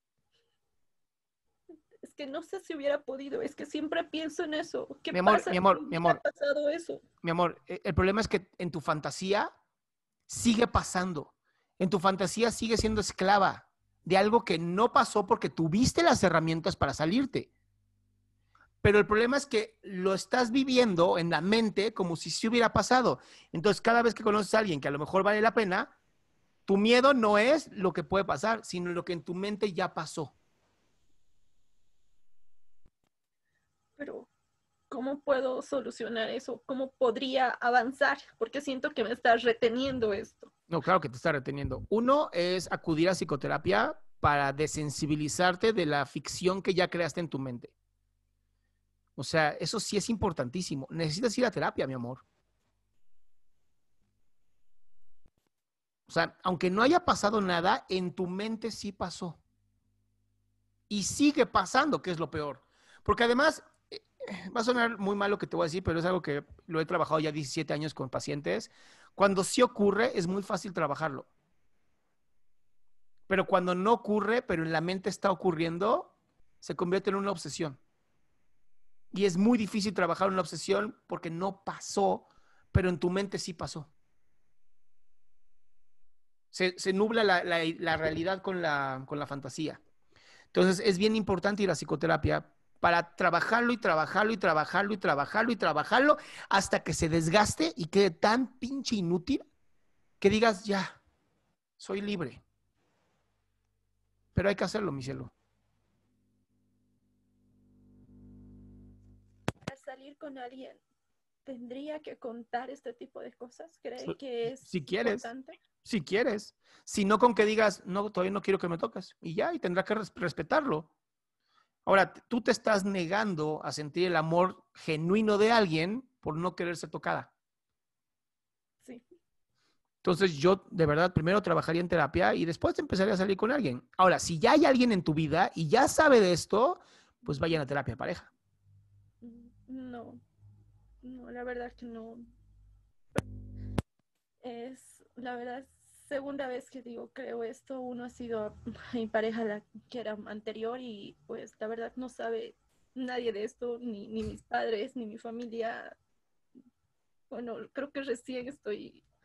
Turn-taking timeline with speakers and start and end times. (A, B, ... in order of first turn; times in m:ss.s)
0:02.0-0:07.0 A
0:05.1-0:06.2 B
0:07.2-0:09.5 B
0:10.3-0:17.5 B
0:18.8-0:25.9 B
0:26.7-0:30.3 B
0:34.0-0:34.3 A
0:34.9-0:40.5 A
0:40.7-0:47.7 B
0:49.2-0:52.2 B
0:56.1-0:59.4 B
1:00.9-1:11.3 B
1:13.3-1:17.8 B
1:19.1-1:23.9 B
1:26.5-1:29.8 B
1:30.5-1:39.4 B
1:40.2-1:41.0 B
1:41.8-1:42.4 B
1:44.4-1:45.3 B
1:49.6-1:50.8 A
1:51.4-1:55.6 A
1:54.0-1:55.3 B
1:55.8-2:00.9 B
2:01.9-2:07.3 B
2:10.0-2:18.3 B
2:19.2-2:20.2 A
2:21.0-2:22.3 A
2:24.4-2:36.0 A
2:37.3-2:39.0 A